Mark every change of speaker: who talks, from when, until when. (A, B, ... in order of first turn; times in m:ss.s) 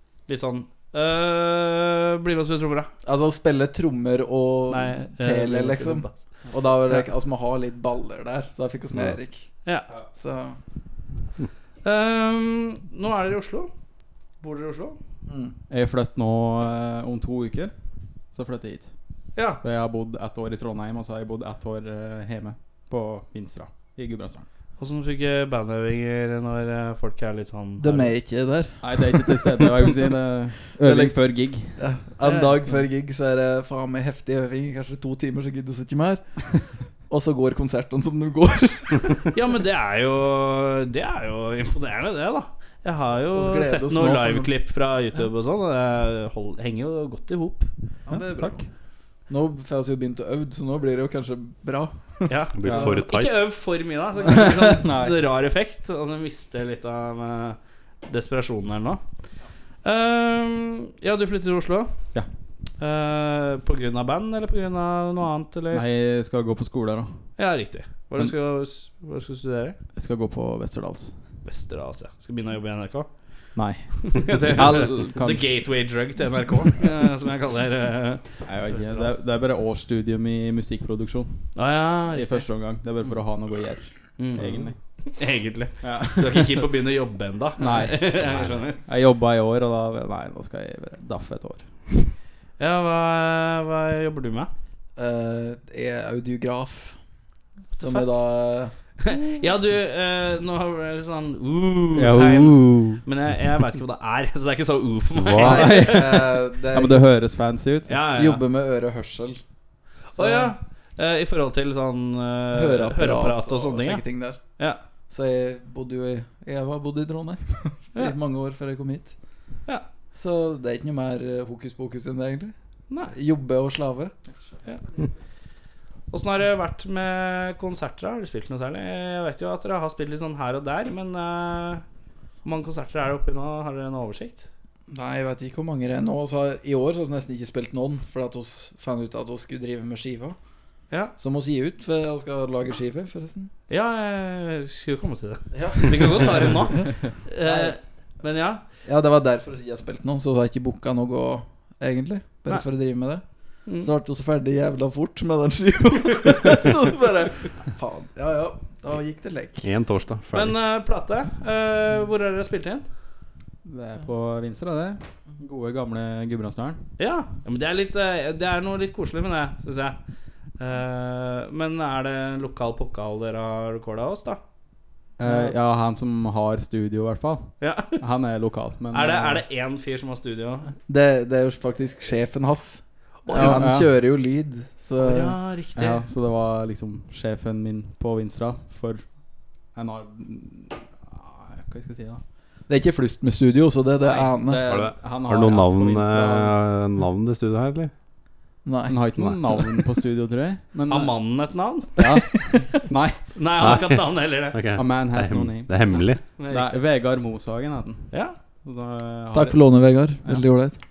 0:00.3-0:02.9 A
0:03.0-0:09.5 B
0:04.7-0:06.2 A
0:10.2-0:10.6 B
0:11.8-0:13.7 A
0:14.4-0:15.0 A
0:15.3-0:15.6 B
0:15.7-0:17.7 C
0:18.3-0:18.9 C
0:19.4-0:19.6 A
0:19.6-0:24.5 C
0:24.8-0:28.1 A
0:27.8-0:36.6 B
0:28.8-0:31.8 C
0:32.2-0:32.6 A
0:37.1-0:39.4 B
0:39.3-0:47.7 A
0:43.3-0:44.5 B
0:48.1-0:48.6 B
0:48.1-0:48.7 C
0:49.3-0:53.0 B
0:52.3-0:59.0 A
0:52.6-0:53.4 D
0:54.3-0:55.2 C
0:59.8-1:02.1 A
1:02.8-1:05.8 A
1:05.7-1:07.2 C
1:07.4-1:09.8 A
1:10.0-1:11.1 C
1:11.4-1:13.2 A
1:13.6-1:15.6 C
1:14.0-1:19.2 A
1:18.4-1:21.6 C
1:21.6-1:22.5 A
1:22.1-1:24.8 C
1:24.2-1:28.8 A
1:25.8-1:26.7 C
1:27.6-1:28.3 C
1:28.8-1:32.1 C
1:32.6-1:34.5 A
1:35.0-1:37.0 B
1:37.8-1:38.7 B
1:37.8-1:38.1 A
1:39.0-1:46.2 A
1:41.9-1:43.0 C
1:45.2-1:45.4 D
1:45.4-1:47.1 B
1:45.4-1:48.1 C
1:47.9-1:48.4 A
1:48.1-1:49.4 B
1:50.2-1:50.6 B
1:50.2-1:54.0 A
1:52.5-1:54.4 B
1:55.1-1:59.2 B
2:00.1-2:02.5 B
2:03.1-2:04.2 B
2:06.1-2:11.8 A
2:12.4-2:14.5 A
2:14.9-2:20.4 B
2:21.2-2:23.5 B
2:23.7-2:28.6 A
2:25.5-2:27.8 B
2:28.8-2:33.2 B
2:33.8-2:39.7 B
2:39.6-2:40.6 D
2:40.3-2:42.9 A
2:43.6-2:46.9 C
2:47.0-2:50.0 A
2:50.6-2:54.4 A
2:55.2-2:59.4 C
2:55.2-2:55.6 B
2:57.6-2:58.0 A
2:58.9-3:00.7 A
3:00.9-3:05.4 B
3:03.3-3:03.6 A
3:03.3-3:04.0 C
3:05.0-3:06.0 A
3:05.7-3:09.0 C
3:09.7-3:12.2 C
3:12.7-3:14.7 B
3:14.1-3:16.6 C
3:14.6-3:17.9 D
3:18.6-3:19.1 B
3:18.9-3:21.2 C
3:19.2-3:19.7 D
3:20.9-3:22.8 A
3:22.0-3:23.2 C
3:23.3-3:24.6 A
3:23.6-3:26.2 D
3:24.8-3:30.4 C
3:26.2-3:26.8 A
3:29.3-3:30.8 B